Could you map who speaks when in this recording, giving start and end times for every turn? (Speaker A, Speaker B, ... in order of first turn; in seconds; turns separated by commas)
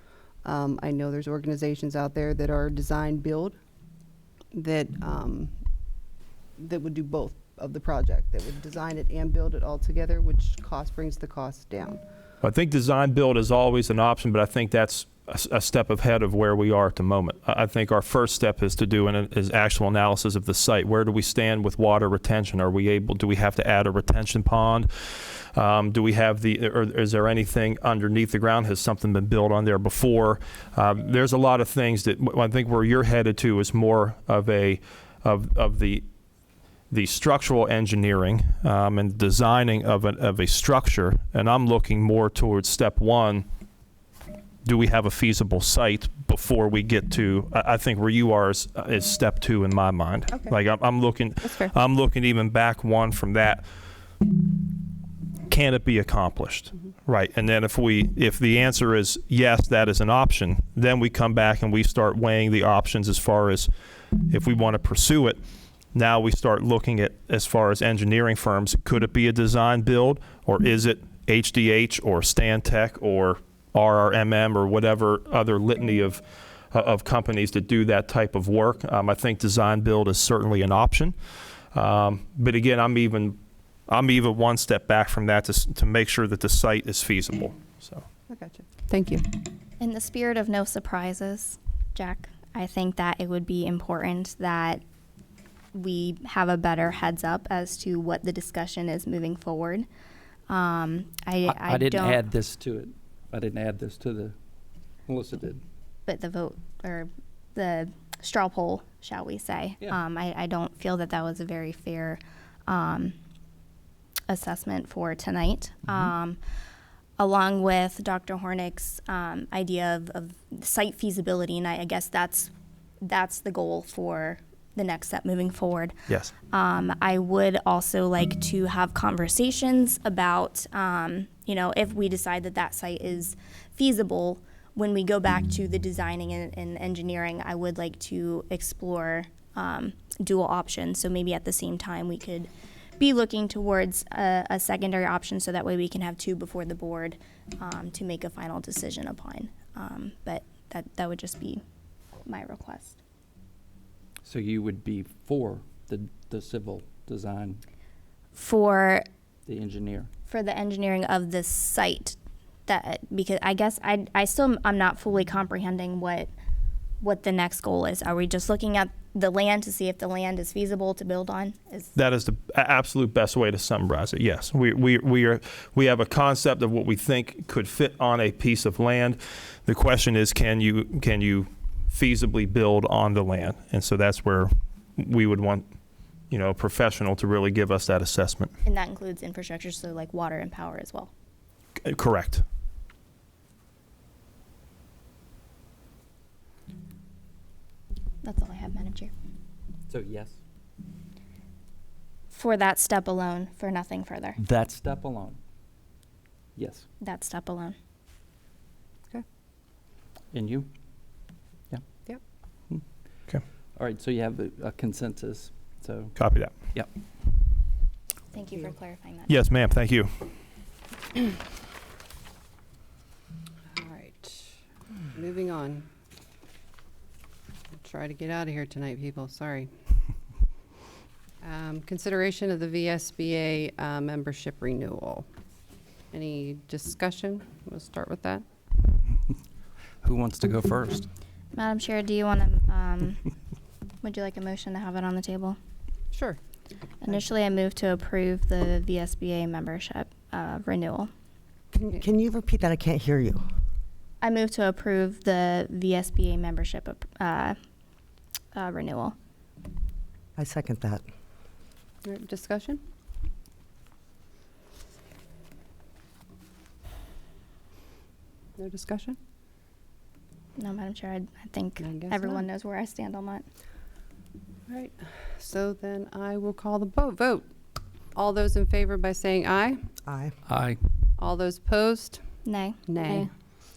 Speaker A: 0.4-3.6, Speaker A: 4.5-5.5, Speaker A: 6.6-12.0, Speaker B: 12.4-36.0, Speaker B: 36.9-43.5, Speaker B: 44.6-53.6, Speaker A: 50.3-50.6, Speaker A: 51.4-51.7, Speaker B: 55.5-63.7, Speaker B: 64.3-65.4, Speaker B: 65.9-81.2, Speaker B: 81.7-88.0, Speaker A: 88.3-89.3, Speaker C: 89.8-94.8, Speaker C: 95.7-99.9, Speaker C: 100.5-102.2, Speaker D: 101.5-104.4, Speaker D: 105.1-105.6, Speaker C: 106.1-113.1, Speaker C: 114.3-116.4, Speaker C: 117.2-122.5, Speaker C: 123.0-125.9, Speaker B: 126.1-126.4, Speaker C: 126.5-151.6, Speaker C: 152.3-153.0, Speaker D: 154.2-157.6, Speaker C: 158.4-159.0, Speaker D: 159.5-160.1, Speaker C: 160.3-166.3, Speaker C: 167.0-171.9, Speaker B: 171.9-185.7, Speaker B: 186.3-188.5, Speaker C: 188.7-191.1, Speaker B: 191.8-192.4, Speaker C: 198.2-199.1, Speaker D: 199.9-200.4, Speaker C: 202.3-204.4, Speaker D: 204.4-205.4, Speaker D: 206.6-206.9, Speaker C: 207.0-207.8, Speaker D: 210.3-210.7, Speaker D: 213.8-216.2, Speaker B: 216.2-216.5, Speaker C: 218.3-219.3, Speaker B: 219.3-220.1, Speaker A: 223.7-224.6, Speaker A: 225.1-225.9, Speaker A: 227.8-229.8, Speaker A: 231.4-235.3, Speaker A: 236.1-238.4, Speaker D: 240.0-241.1, Speaker C: 241.6-243.2, Speaker C: 244.0-245.6, Speaker A: 246.1-246.4, Speaker C: 247.1-251.1, Speaker A: 251.7-252.0, Speaker E: 251.9-253.4, Speaker C: 254.2-257.6, Speaker C: 258.5-259.1, Speaker E: 260.4-261.0, Speaker A: 262.0-262.8, Speaker A: 268.6-269.2, Speaker C: 270.6-273.5, Speaker A: 271.8-272.4, Speaker A: 274.7-277.5, Speaker A: 278.1-279.9, Speaker E: 280.1-280.4, Speaker D: 280.5-280.8, Speaker A: 281.2-282.2, Speaker C: 282.5-283.2, Speaker A: 282.9-283.3